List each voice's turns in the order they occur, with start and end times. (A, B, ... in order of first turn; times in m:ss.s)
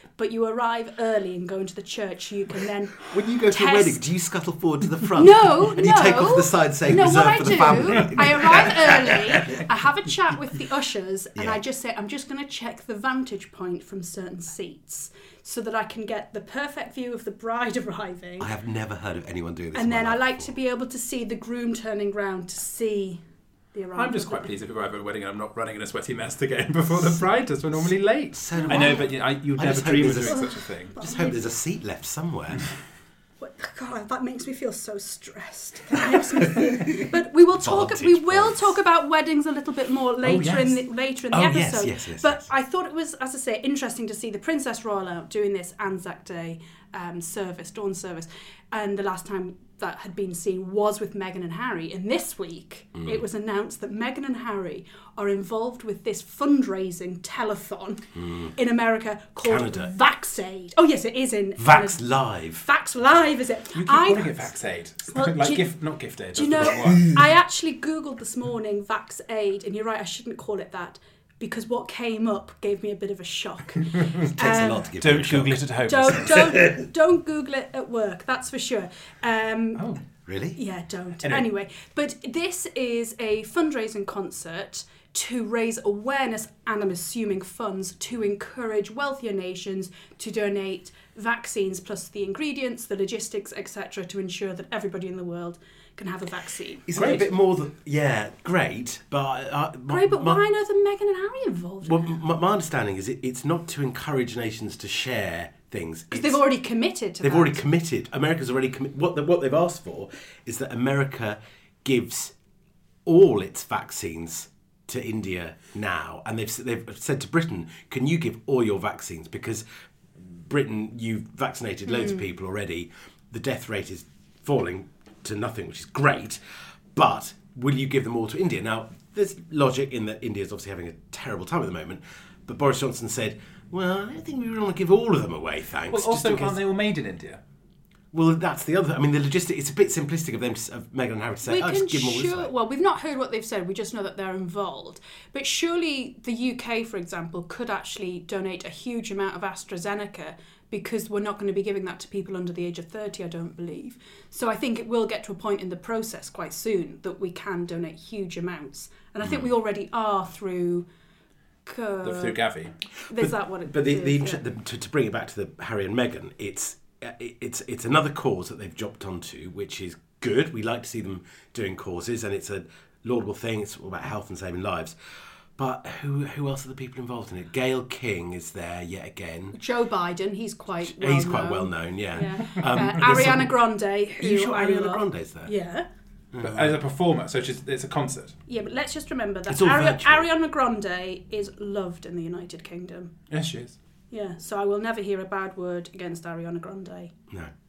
0:00.2-0:04.0 A
0:03.1-0:09.7 B
0:05.2-0:18.5 A
0:18.4-0:20.5 B
0:19.7-0:23.2 A
0:23.7-0:24.5 A
0:24.0-0:31.0 C
0:28.4-0:32.6 B
0:28.5-0:29.1 A
0:30.3-0:31.5 A
0:33.4-1:02.0 A
0:36.6-0:38.8 B
0:40.2-0:40.7 C
0:41.3-0:42.5 B
0:58.2-0:58.5 B
0:59.4-0:59.9 B
1:01.6-1:02.7 B
1:02.6-1:04.5 A
1:03.8-1:07.2 C
1:05.1-1:05.7 A
1:06.3-1:15.0 A
1:13.8-1:14.2 C
1:14.4-1:15.6 B
1:15.0-1:16.4 C
1:15.8-1:19.9 A
1:16.2-1:16.8 B
1:19.8-1:20.0 C
1:20.2-1:20.6 B
1:20.6-1:36.9 A
1:36.9-1:40.4 B
1:36.9-1:37.3 C
1:39.9-1:42.0 A
1:41.8-1:46.4 B
1:46.1-1:47.6 A
1:47.2-1:52.3 B
1:53.1-1:59.6 B
2:00.2-2:06.4 B
2:01.9-2:02.2 A
2:06.9-2:16.6 B
2:15.9-2:17.4 C
2:18.1-2:22.5 B
2:21.4-2:40.9 A
2:39.2-2:39.5 B
2:41.7-2:42.4 A
2:42.0-2:42.7 C
2:43.1-2:44.4 A
2:43.2-2:55.0 B
2:55.6-2:59.6 B
2:59.5-3:05.9 A
3:00.8-3:03.6 B
3:04.2-3:05.5 B
3:06.3-3:06.8 B
3:06.4-3:08.4 C
3:08.5-3:13.1 A
3:09.5-3:10.3 B
3:13.3-3:13.8 C
3:14.1-3:17.1 A